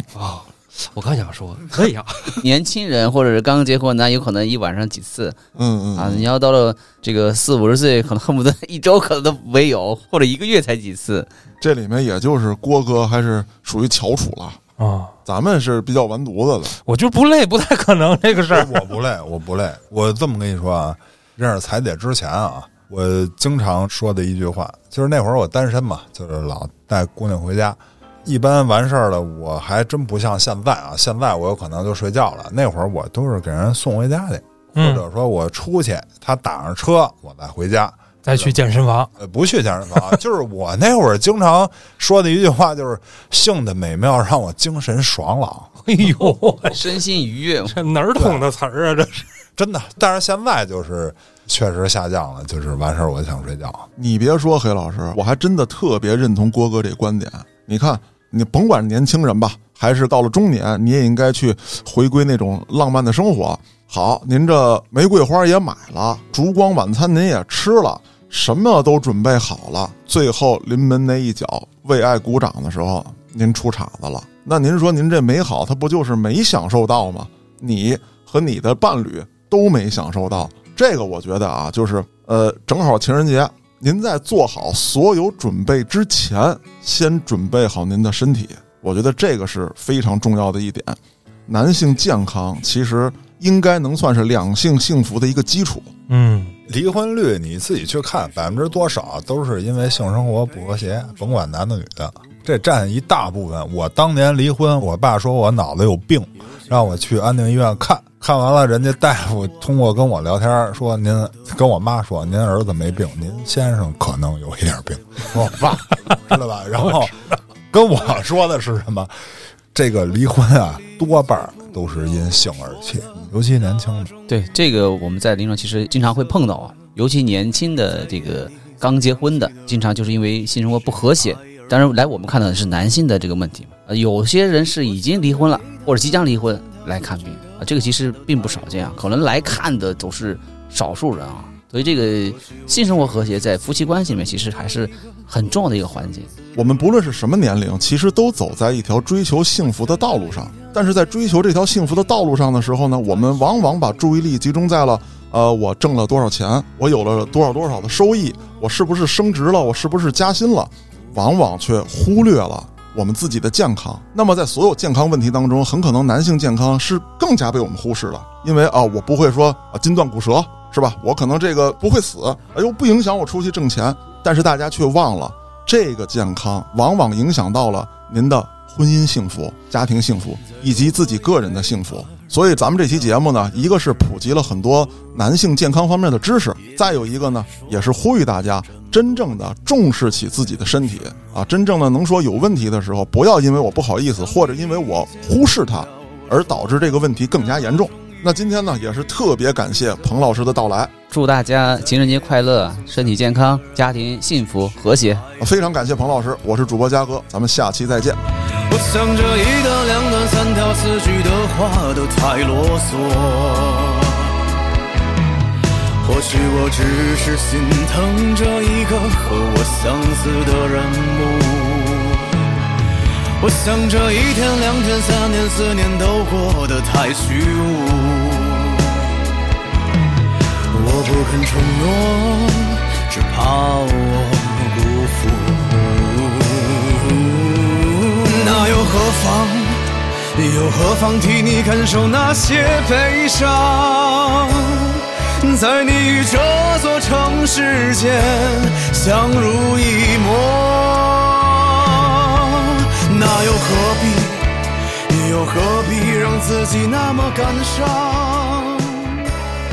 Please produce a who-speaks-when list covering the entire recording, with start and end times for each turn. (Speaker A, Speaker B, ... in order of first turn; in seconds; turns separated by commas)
Speaker A: 0.1-2.4, Speaker B: 2.4-5.4, Speaker C: 5.5-6.3, Speaker B: 6.0-11.3, Speaker C: 11.6-14.6, Speaker D: 14.8-15.1, Speaker C: 15.2-16.8, Speaker D: 16.9-18.8, Speaker E: 18.5-38.6, Speaker D: 34.8-35.0, Speaker D: 38.2-39.1, Speaker E: 39.2-45.7, Speaker D: 45.9-46.8, Speaker B: 46.6-47.8, Speaker D: 47.6-49.3, Speaker E: 48.1-48.4, Speaker E: 49.6-53.9, Speaker C: 54.0-95.9, Speaker D: 96.1-96.5, Speaker E: 96.7-117.2, Speaker E: 117.7-119.1, Speaker E: 119.7-124.1, Speaker B: 124.3-146.3, Speaker C: 146.5-200.9, Speaker B: 201.1-205.3, Speaker C: 205.4-208.2, Speaker F: 208.7-214.3, Speaker F: 216.0-222.4, Speaker F: 223.4-229.0, Speaker F: 230.7-254.5, Speaker F: 255.1-259.2